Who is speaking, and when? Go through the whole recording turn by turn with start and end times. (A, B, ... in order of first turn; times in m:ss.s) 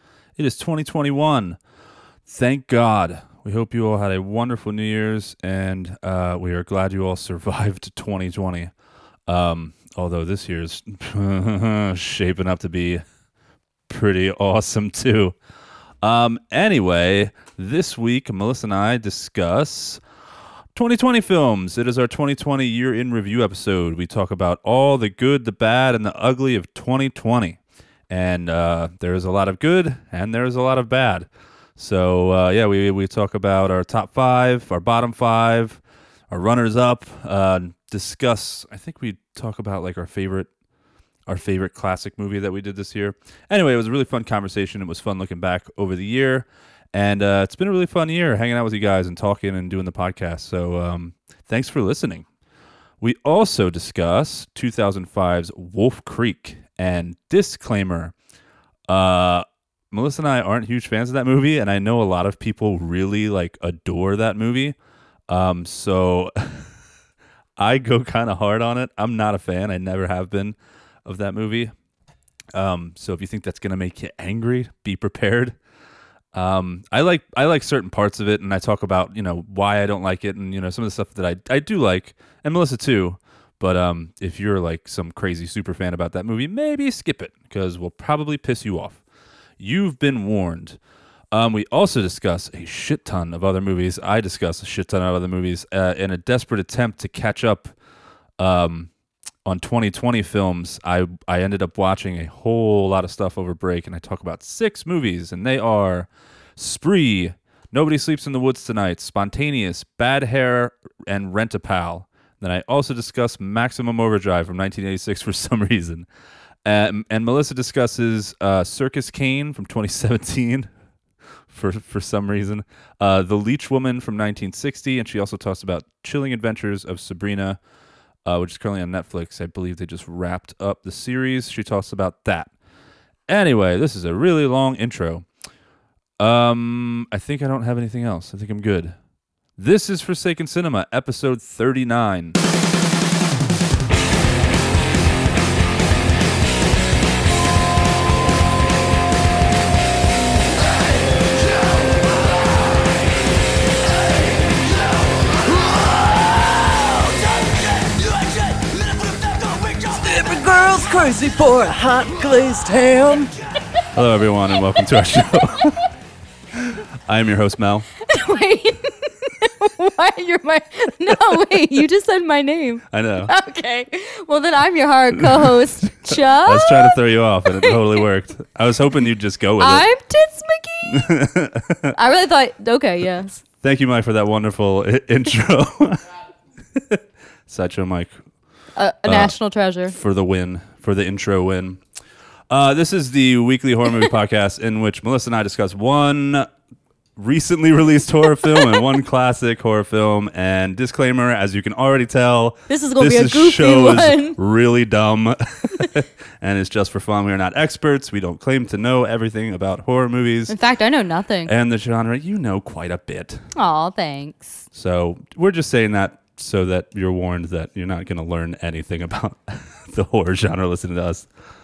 0:00.4-0:01.6 A
0:02.3-0:08.7 A
0:09.3-0:13.0 A
0:13.9-0:15.4 A
0:16.0-0:20.0 A
0:20.8-0:40.5 A
0:41.3-0:52.3 A
0:53.0-0:58.1 A
0:58.9-1:04.8 A
1:05.3-1:06.7 A
1:07.6-1:11.7 A
1:12.5-1:15.6 A
1:16.3-1:29.0 A
1:29.6-1:30.8 A
1:31.3-1:37.7 A
1:38.4-1:38.9 A
1:39.4-1:56.1 A
1:56.6-2:00.7 A
2:01.5-2:07.6 A
2:08.2-2:12.5 A
2:13.3-2:15.3 A
2:16.2-2:19.0 A
2:19.6-2:22.4 A
2:34.4-2:34.6 B
2:35.5-2:43.3 B
2:43.9-2:45.9 A
2:46.6-2:47.9 A
2:48.0-2:58.0 C
2:52.9-2:53.3 A
2:55.3-2:59.9 A
2:59.6-3:01.1 C
3:00.9-3:02.0 A
3:01.9-3:03.4 C
3:03.6-3:06.1 A
3:06.8-3:08.2 A
3:08.8-3:10.0 C
3:09.0-3:09.3 A
3:09.9-3:11.8 A
3:12.5-3:16.5 A
3:17.2-3:30.6 A
3:18.5-3:18.8 C
3:22.7-3:24.4 C
3:30.5-3:31.5 C
3:31.5-3:33.4 A
3:33.6-3:34.6 C
3:34.7-3:41.3 A